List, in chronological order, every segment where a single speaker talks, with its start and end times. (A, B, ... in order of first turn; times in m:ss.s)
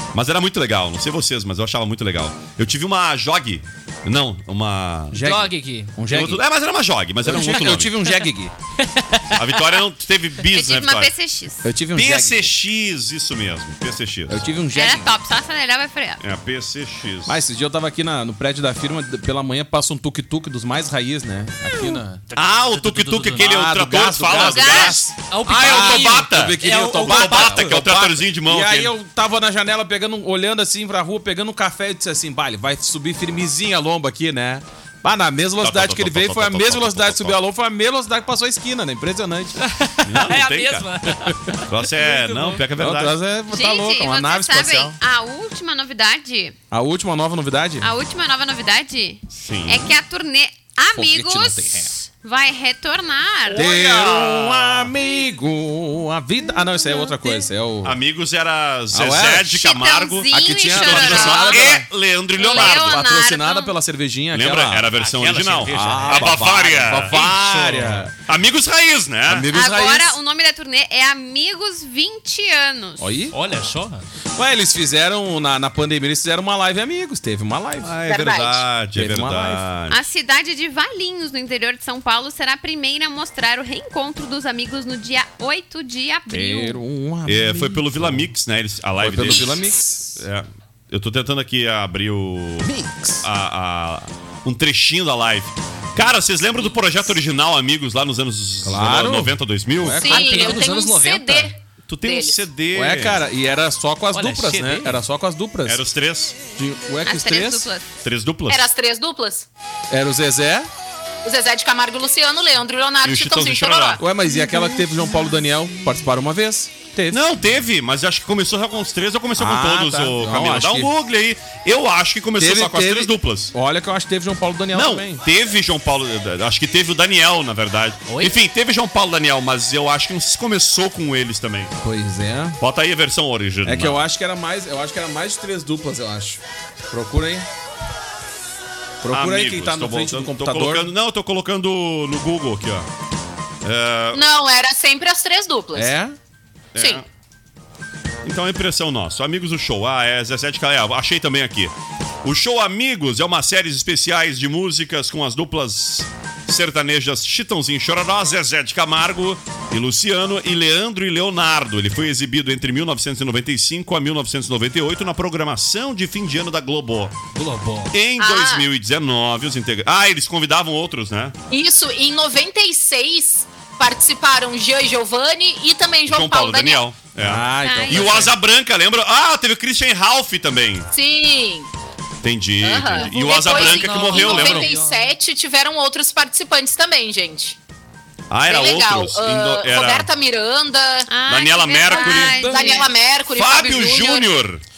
0:00.1-0:05.2 A
0:05.1-0:06.4 B
0:05.2-0:06.0 C
0:06.1-0:07.9 A
0:07.2-0:08.5 B
0:08.8-0:09.8 C
0:09.3-0:11.1 A
0:10.5-0:11.7 D
0:11.6-0:12.5 B
0:11.9-0:14.4 A
0:14.3-0:15.1 B
0:14.7-0:16.2 D
0:16.2-0:17.4 A
0:17.3-0:22.2 B
0:22.3-0:23.6 C
0:22.4-0:28.9 A
0:23.4-0:39.6 B
0:24.4-0:25.0 D
0:25.3-0:27.8 C
0:35.6-0:37.4 A
0:39.6-0:42.6 C
0:40.0-0:40.9 A
0:41.6-0:43.2 A
0:42.8-0:45.0 B
0:43.5-0:46.6 D
0:46.7-0:47.9 B
0:47.8-0:53.6 D
0:49.4-0:49.9 A
0:50.9-0:51.9 B
0:53.5-0:54.9 A
0:53.6-0:58.0 B
0:57.8-1:03.0 A
0:58.9-0:59.6 B
0:59.5-1:01.7 D
1:00.3-1:01.9 B
1:02.4-1:03.7 D
1:02.5-1:04.9 B
1:04.3-1:09.5 A
1:05.0-1:07.2 C
1:05.7-1:08.1 B
1:09.3-1:10.2 B
1:09.5-1:13.1 D
1:13.0-1:13.4 B
1:13.3-1:14.0 C
1:14.4-1:18.0 B
1:17.8-1:20.0 A
1:18.1-1:18.7 E
1:18.9-1:19.6 B
1:19.9-1:26.8 D
1:26.3-1:28.3 B
1:27.3-1:40.0 A
1:29.0-1:30.2 B
1:32.6-1:33.3 B
1:38.6-1:40.4 B
1:40.0-1:42.4 E
1:40.0-1:41.5 C
1:41.9-1:43.2 A
1:42.7-1:45.8 B
1:44.1-1:45.0 C
1:45.7-1:46.4 A
1:46.5-1:47.7 B
1:47.0-1:47.9 D
1:48.0-1:48.7 A
1:48.5-1:49.5 E
1:49.9-1:50.7 B
1:51.2-1:54.0 E
1:53.0-1:54.0 A
1:54.0-1:57.2 B
1:57.1-2:03.5 A
1:59.4-2:00.9 B
2:02.4-2:05.2 B
2:04.7-2:11.7 A
2:08.1-2:08.3 C
2:11.8-2:12.6 B
2:12.6-2:14.0 A
2:13.6-2:17.5 B
2:19.0-2:20.9 B
2:19.1-2:22.9 A
2:23.6-2:24.2 A
2:24.1-2:25.9 E
2:25.7-2:26.2 B
2:26.8-2:27.1 A
2:26.8-2:27.0 E
2:28.2-2:31.7 A
2:32.2-2:47.2 A
2:47.4-2:47.9 C
2:47.9-2:51.4 A
2:48.2-2:48.7 E
2:51.5-2:56.9 E
2:56.1-3:00.9 A
2:57.2-2:58.4 B
2:57.6-2:58.2 D
3:00.9-3:01.7 E
3:02.2-3:04.7 A
3:02.6-3:07.6 E
3:02.9-3:05.1 C
3:08.3-3:10.1 A
3:08.4-3:11.1 E
3:11.1-3:12.9 D
3:11.2-3:12.6 A
3:11.9-3:14.3 E
3:12.1-3:12.9 C
3:13.3-3:14.6 A